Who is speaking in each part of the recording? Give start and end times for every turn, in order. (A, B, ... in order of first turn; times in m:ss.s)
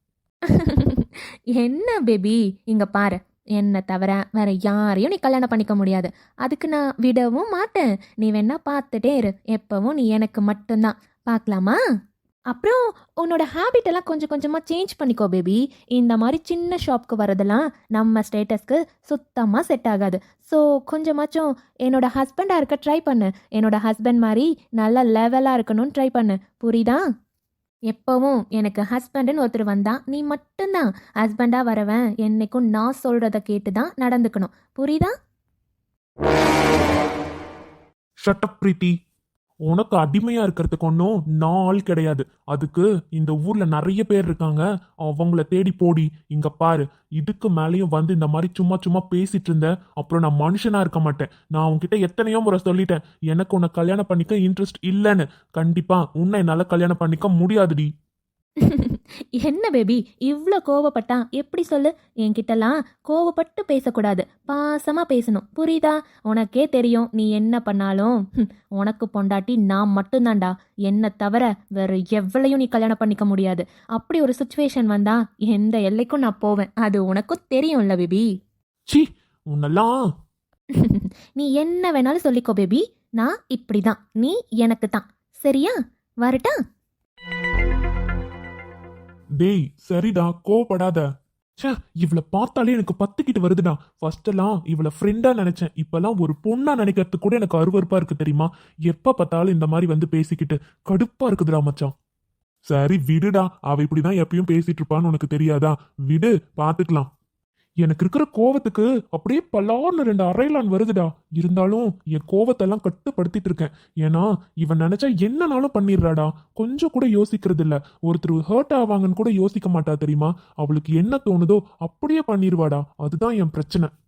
0:00.5-0:11.8 A
0:12.5-0:27.0 A
0:27.9-0:35.1 A
0:38.2-0:39.0 B
0:39.7-0:57.9 B
0:58.6-1:08.2 A
1:08.8-1:18.3 A
1:18.9-1:19.9 B
1:20.8-1:26.6 A
1:29.4-1:31.0 B
1:31.6-1:41.9 B
1:42.7-1:47.1 B
1:47.8-2:03.9 B